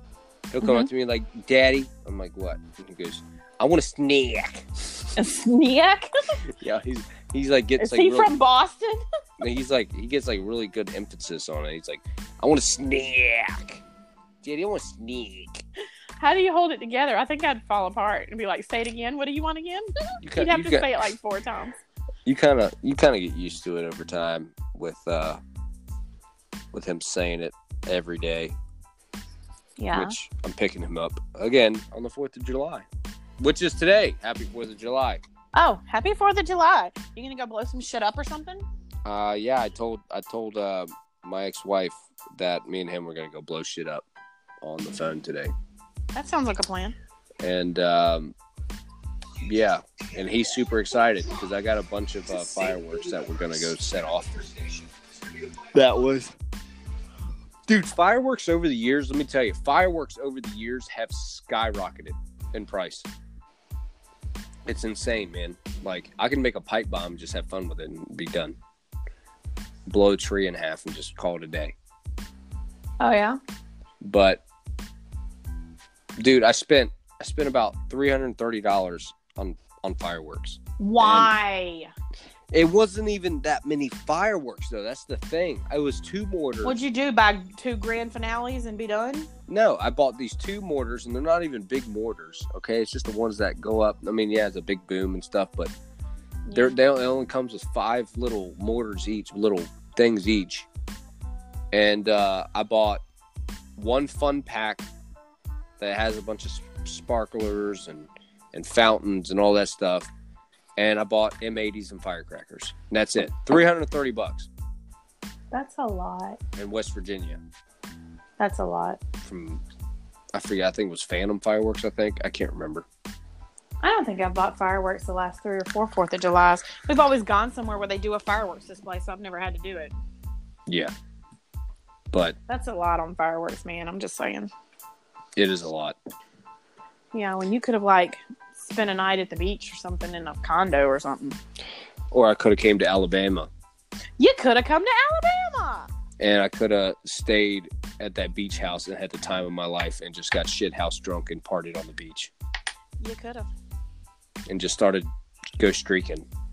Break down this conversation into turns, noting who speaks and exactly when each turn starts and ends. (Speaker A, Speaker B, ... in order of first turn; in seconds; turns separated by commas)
Speaker A: 0.5-4.8, Speaker B: 0.6-0.9, Speaker B: 5.2-6.4, Speaker A: 6.4-8.3, Speaker B: 7.8-9.0, Speaker A: 9.4-13.8, Speaker A: 14.4-15.6, Speaker B: 16.2-21.8, Speaker A: 20.2-20.9, Speaker A: 22.2-25.4, Speaker A: 26.7-28.6, Speaker B: 29.8-30.1, Speaker A: 29.9-32.9, Speaker A: 33.4-35.2, Speaker B: 35.5-38.6, Speaker A: 39.0-44.0, Speaker A: 44.6-45.5, Speaker B: 46.1-46.9, Speaker A: 47.4-48.3, Speaker A: 49.4-54.9, Speaker A: 55.6-56.3, Speaker A: 57.7-63.1, Speaker A: 64.7-68.6, Speaker A: 69.9-71.7, Speaker B: 73.0-73.4, Speaker A: 74.0-74.4, Speaker A: 76.2-81.3, Speaker B: 80.8-81.9, Speaker A: 82.5-86.8, Speaker B: 86.6-89.3, Speaker A: 89.5-95.7, Speaker B: 96.5-96.8, Speaker A: 96.5-100.7, Speaker A: 101.7-103.0, Speaker A: 103.8-104.9, Speaker A: 105.8-110.1, Speaker A: 110.8-114.5, Speaker B: 115.5-116.4, Speaker A: 116.5-117.4, Speaker B: 118.4-119.0, Speaker A: 119.2-119.6, Speaker A: 120.3-122.8, Speaker B: 123.8-129.9, Speaker A: 130.7-130.9, Speaker A: 132.1-132.4, Speaker B: 132.5-134.5, Speaker A: 135.3-135.9, Speaker B: 137.1-141.4, Speaker A: 142.1-143.5, Speaker B: 144.2-145.9, Speaker A: 146.2-152.3, Speaker B: 153.0-153.5, Speaker A: 154.5-156.2